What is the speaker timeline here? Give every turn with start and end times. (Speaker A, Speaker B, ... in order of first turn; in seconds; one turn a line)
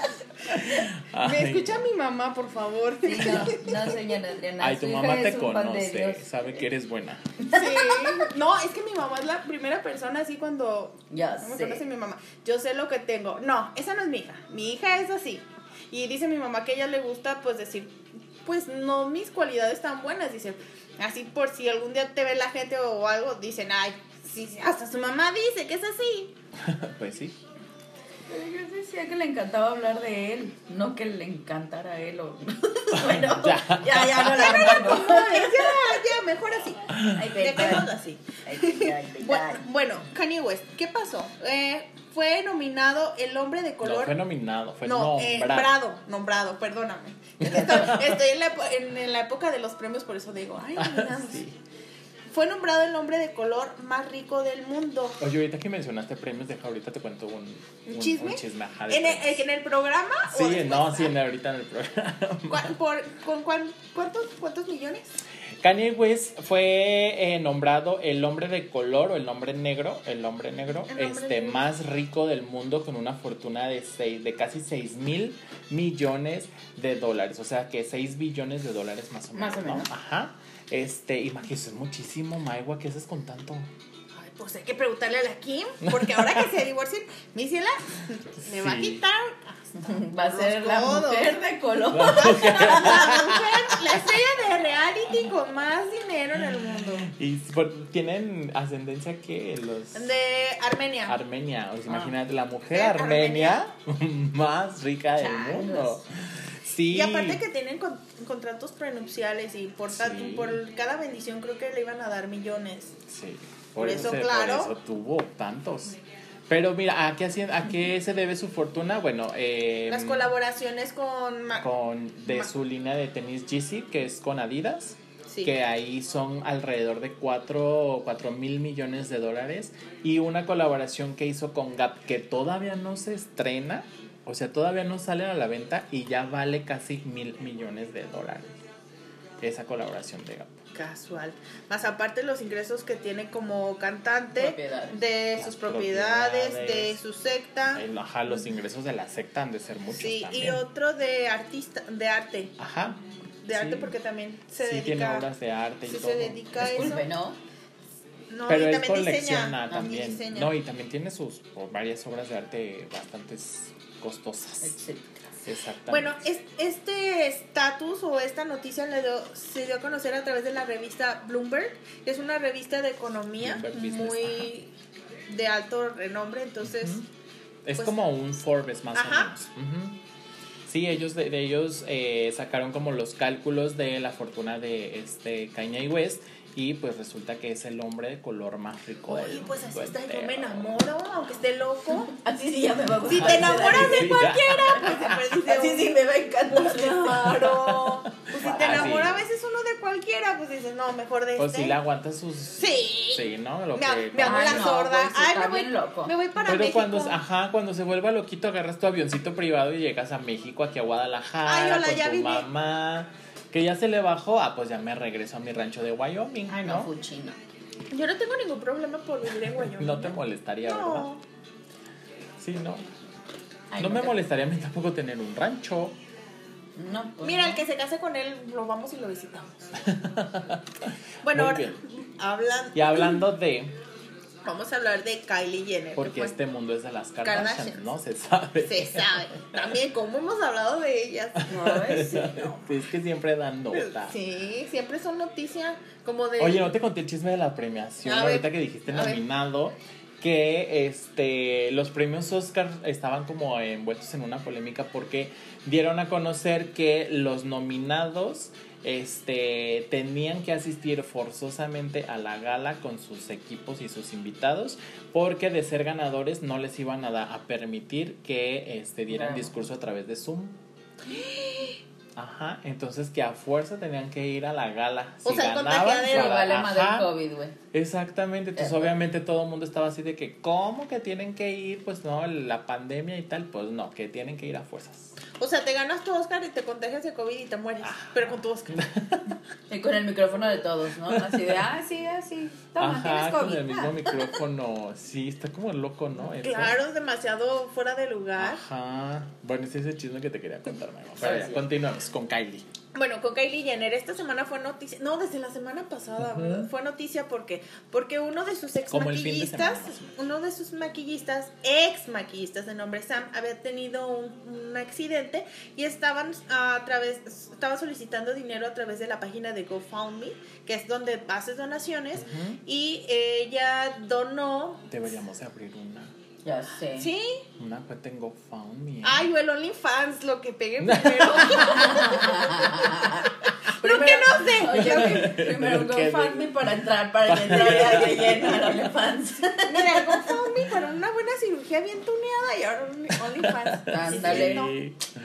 Speaker A: 0.5-1.9
Speaker B: 1.2-3.9
Speaker C: 3.0-6.3
Speaker A: 4.6-7.5
Speaker B: 7.5-26.3
Speaker C: 7.5-8.2
Speaker C: 11.1-11.8
Speaker A: 26.6-27.4
Speaker C: 28.3-36.0
Speaker A: 32.9-34.9
Speaker B: 34.4-44.1
Speaker A: 36.9-37.8
Speaker C: 37.1-37.9
Speaker C: 38.4-39.6
Speaker A: 43.8-45.7
Speaker B: 44.8-51.4
Speaker A: 47.4-48.2
Speaker A: 50.8-51.6
Speaker B: 52.3-55.2
Speaker A: 55.2-59.4
Speaker B: 57.9-61.1
Speaker A: 60.3-62.7
Speaker B: 62.5-65.2
Speaker A: 65.6-83.7
Speaker B: 70.9-71.7
Speaker C: 79.3-79.9
Speaker B: 84.2-91.4
Speaker A: 85.8-86.4
Speaker A: 88.4-89.0
Speaker C: 89.8-93.1
Speaker A: 91.9-93.8
Speaker B: 92.0-97.1
Speaker A: 96.4-100.1
Speaker B: 99.9-101.2
Speaker A: 101.1-107.4
Speaker B: 102.7-103.6
Speaker C: 105.2-106.0
Speaker B: 106.9-113.0
Speaker A: 109.9-110.6
Speaker A: 113.0-120.3
Speaker B: 113.8-114.7
Speaker B: 119.9-121.7
Speaker A: 121.6-138.6
Speaker B: 125.3-125.5
Speaker A: 139.4-140.6
Speaker B: 140.7-147.8
Speaker C: 144.3-145.0
Speaker A: 145.3-147.0
Speaker A: 147.7-150.6
Speaker B: 149.9-152.6
Speaker A: 152.6-153.9
Speaker B: 153.4-155.3
Speaker A: 154.6-157.0
Speaker B: 155.8-157.1
Speaker C: 156.6-157.4
Speaker B: 158.3-160.5
Speaker A: 158.5-164.8
Speaker C: 164.6-165.2
Speaker A: 165.4-166.2
Speaker B: 165.9-174.7
Speaker A: 173.4-174.5
Speaker B: 175.3-177.0
Speaker A: 176.6-177.0
Speaker A: 177.6-180.0
Speaker B: 178.9-179.3
Speaker A: 180.7-190.8
Speaker B: 189.1-192.1
Speaker C: 192.1-194.1
Speaker B: 193.1-196.0
Speaker A: 193.2-195.0
Speaker C: 194.7-199.1
Speaker B: 196.6-197.2
Speaker A: 197.0-199.2
Speaker B: 198.3-201.8
Speaker A: 201.3-204.7
Speaker B: 202.6-207.2
Speaker C: 204.2-206.1
Speaker A: 206.4-216.9
Speaker B: 211.4-212.4
Speaker C: 216.5-217.4
Speaker B: 217.9-221.2
Speaker A: 219.4-221.1
Speaker A: 222.4-222.9
Speaker C: 223.7-224.2
Speaker A: 223.8-226.0
Speaker C: 226.8-227.6
Speaker B: 227.2-229.7
Speaker A: 229.8-230.7
Speaker B: 231.2-233.2
Speaker A: 231.3-231.8
Speaker A: 232.7-233.7
Speaker B: 234.4-236.3
Speaker A: 235.9-239.6
Speaker B: 237.2-237.9
Speaker B: 238.6-241.7
Speaker A: 241.4-244.2
Speaker C: 241.4-242.6
Speaker B: 243.7-246.7
Speaker A: 246.4-270.6
Speaker B: 248.0-249.2
Speaker C: 269.1-269.5
Speaker B: 271.1-271.8
Speaker A: 272.1-277.1
Speaker B: 275.2-276.6
Speaker C: 276.1-277.6
Speaker A: 277.7-285.2
Speaker C: 278.6-278.9
Speaker B: 285.4-288.8
Speaker A: 287.8-289.4
Speaker C: 289.7-294.3
Speaker A: 291.1-291.6
Speaker A: 292.8-296.8
Speaker B: 296.4-298.6
Speaker A: 298.4-302.7
Speaker C: 301.2-301.6
Speaker B: 302.9-324.9
Speaker A: 306.2-306.7
Speaker A: 308.9-310.1
Speaker A: 322.2-322.6
Speaker A: 324.9-326.1
Speaker C: 326.4-327.1
Speaker B: 327.0-327.4
Speaker A: 327.6-329.3
Speaker B: 329.0-335.3
Speaker A: 330.8-331.8
Speaker C: 331.4-340.3
Speaker A: 334.5-338.8
Speaker B: 339.6-344.7
Speaker A: 343.1-345.1
Speaker C: 343.9-344.7